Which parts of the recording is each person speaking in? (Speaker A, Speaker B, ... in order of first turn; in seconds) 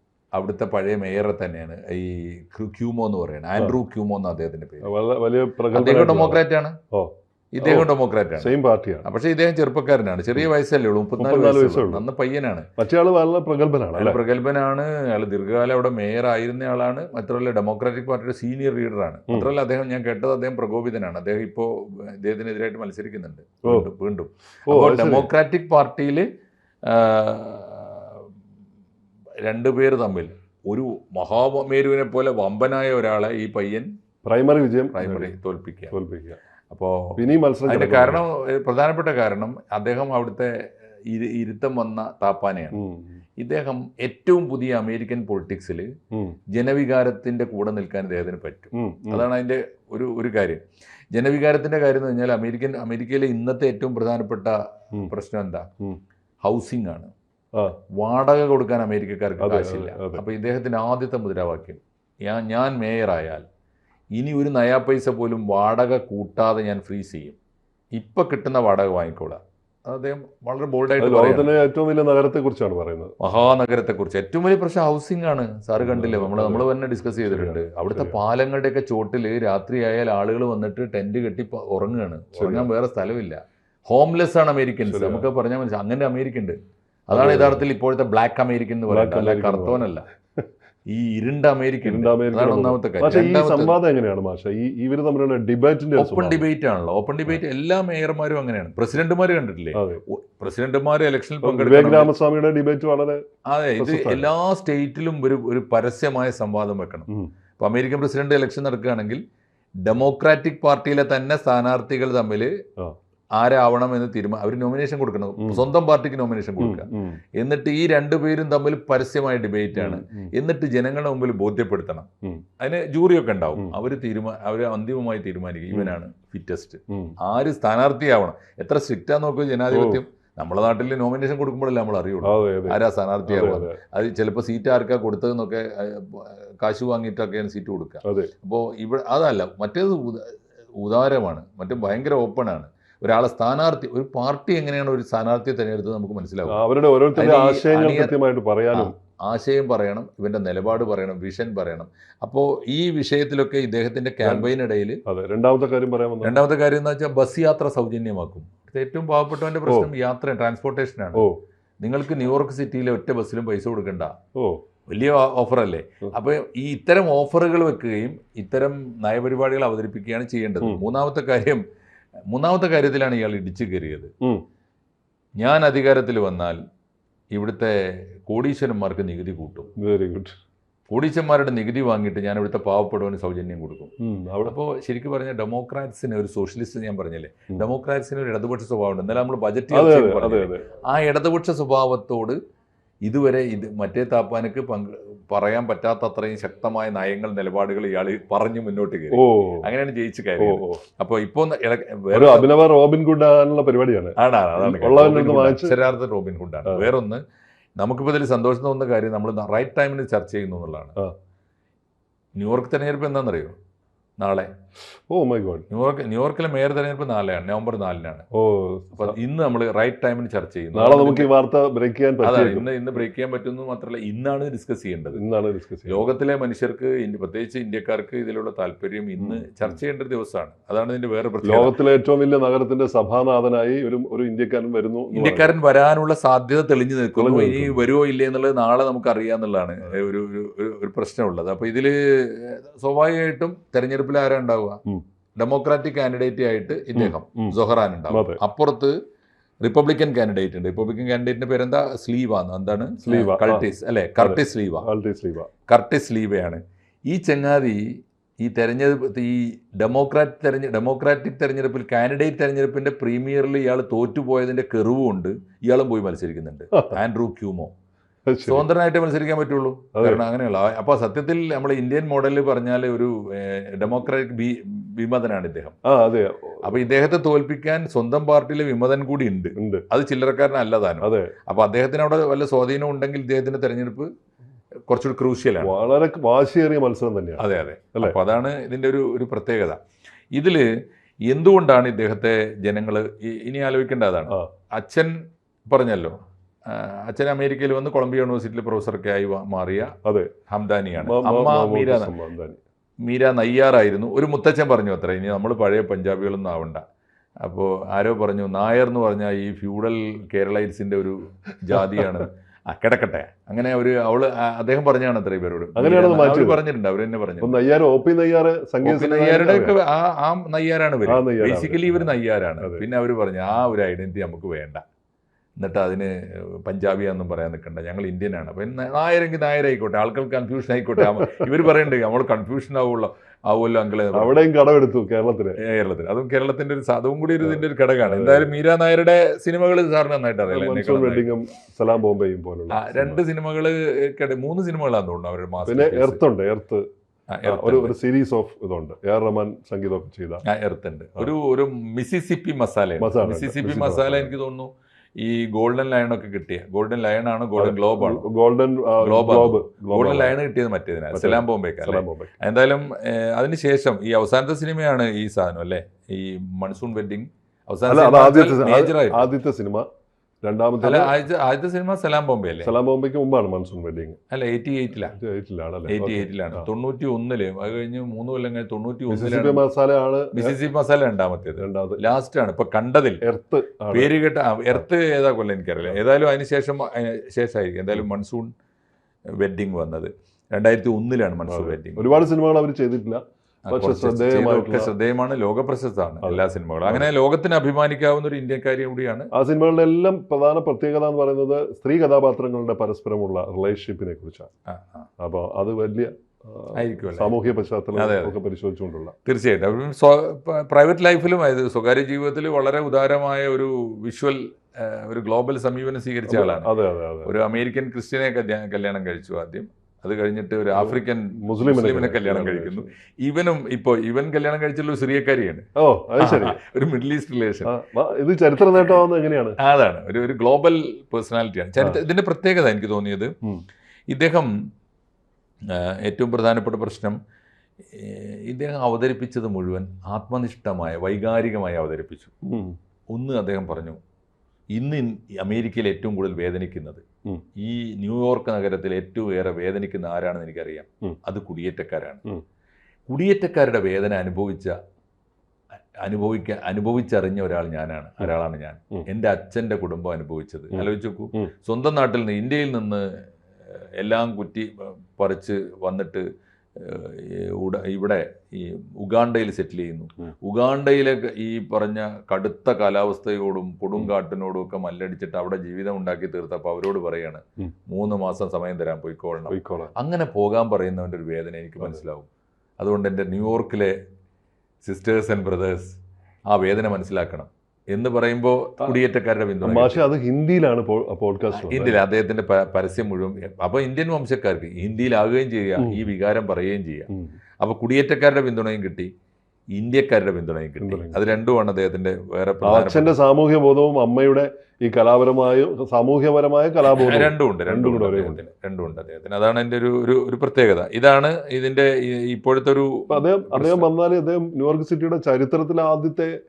Speaker A: 0.3-4.9, 5.7-6.8, 7.5-8.5, 9.0-12.7, 13.9-26.3, 26.9-28.3, 29.4-33.9, 34.9-35.9, 36.7-40.5, 41.1-42.8, 43.4-45.9, 46.5-50.6, 51.1-55.7, 56.4-57.1, 58.0-63.4, 64.1-67.4, 68.0-71.5, 73.2-86.6, 87.1-90.0, 90.9-93.8, 96.0-102.1, 103.5-107.1, 107.6-109.2, 109.8-112.5, 113.3-122.1, 122.6-146.6, 147.1-148.2, 148.7-155.0, 156.2-161.3, 161.8-164.1, 164.9-171.6, 172.3-174.1, 175.4-176.6, 177.3-177.8, 178.3-179.7, 180.9-183.9, 184.4-192.4, 193.1-202.5, 204.2-207.2, 207.8-210.9, 212.4-213.6, 214.2-214.5, 215.7-218.2, 218.9-221.3, 222.2-225.2, 225.9-231.7, 235.1-244.8, 245.4-248.9, 249.6-254.9, 255.7-257.8, 258.4-267.7, 268.4-275.8, 276.6-284.1, 284.9-285.7, 287.4-289.8, 290.3-290.6, 291.2-295.1, 295.7-296.1, 296.7-299.9, 300.5-302.1, 303.0-306.8, 307.4-317.6, 318.8-324.8, 325.6-334.3, 335.6-341.3, 342.7-346.2, 347.3-347.9, 350.4-358.2, 359.0-369.3, 370.8-372.7, 374.3-375.1, 375.9-379.6, 380.3-383.2, 383.9-388.5, 389.4-392.2, 393.6-399.3, 404.7-405.1, 406.7-407.4, 407.9-408.3, 409.2-416.7, 417.2-425.7, 426.2-427.7, 428.7-429.0, 429.6-433.3, 434.1-434.5, 435.7-437.1, 437.9-442.3, 443.1-444.0, 444.7-447.0, 447.6-452.2, 453.1-454.7, 456.0-463.0, 463.7-466.2, 466.8-482.2, 482.8-483.9, 484.8-486.0, 486.5-490.0, 491.5-497.1, 497.6-499.1, 499.7-503.1, 506.8-513.9
Speaker B: 4.8-6.4, 6.9-9.1, 11.2-12.0, 12.8-14.2, 24.7-25.3, 34.2-35.3, 35.9-36.4, 37.2-38.2, 42.7-43.2, 48.7-49.2, 59.4-60.2, 71.0-73.1, 75.8-78.2, 82.4-82.7, 84.8-85.3, 87.1-87.6, 88.9-90.5, 91.8-96.4, 99.7-100.0, 101.4-103.2, 103.8-104.3, 116.6-117.2, 119.7-120.3, 129.7-130.0, 132.2-133.8, 138.0-138.3, 146.5-148.9, 154.2-154.5, 155.1-156.4, 164.3-164.6, 179.8-180.3, 184.0-184.5, 189.7-190.6, 199.1-199.6, 200.4-200.8, 202.1-205.8, 215.1-215.6, 218.3-219.2, 220.7-222.7, 225.1-226.1, 229.2-229.7, 231.4-235.5, 237.2-237.8, 246.9-247.5, 248.1-248.4, 253.0-253.6, 254.2-255.5, 268.3-268.6, 269.9-270.2, 275.9-276.6, 279.6-279.8, 281.0-281.3, 285.6-287.4, 300.0-300.3, 301.0-302.6, 311.7-312.2, 315.8-316.6, 317.4-319.8, 321.1-322.8, 334.1-335.6, 337.4-338.5, 340.5-343.2, 345.6-346.8, 347.4-350.4, 353.0-354.3, 357.6-360.4, 361.1-362.4, 367.9-369.9, 370.4-371.1, 372.6-374.2, 375.1-376.6, 379.1-380.6, 381.6-382.0, 383.2-384.1, 391.5-394.9, 396.2-397.1, 399.3-404.5, 405.2-409.1, 416.3-417.3, 420.7-422.9, 425.8-426.6, 427.7-429.6, 442.4-442.8, 460.7-461.5, 479.5-479.9, 489.6-492.0, 495.8-496.1, 500.8-501.2, 502.6-508.4, 513.1-516.3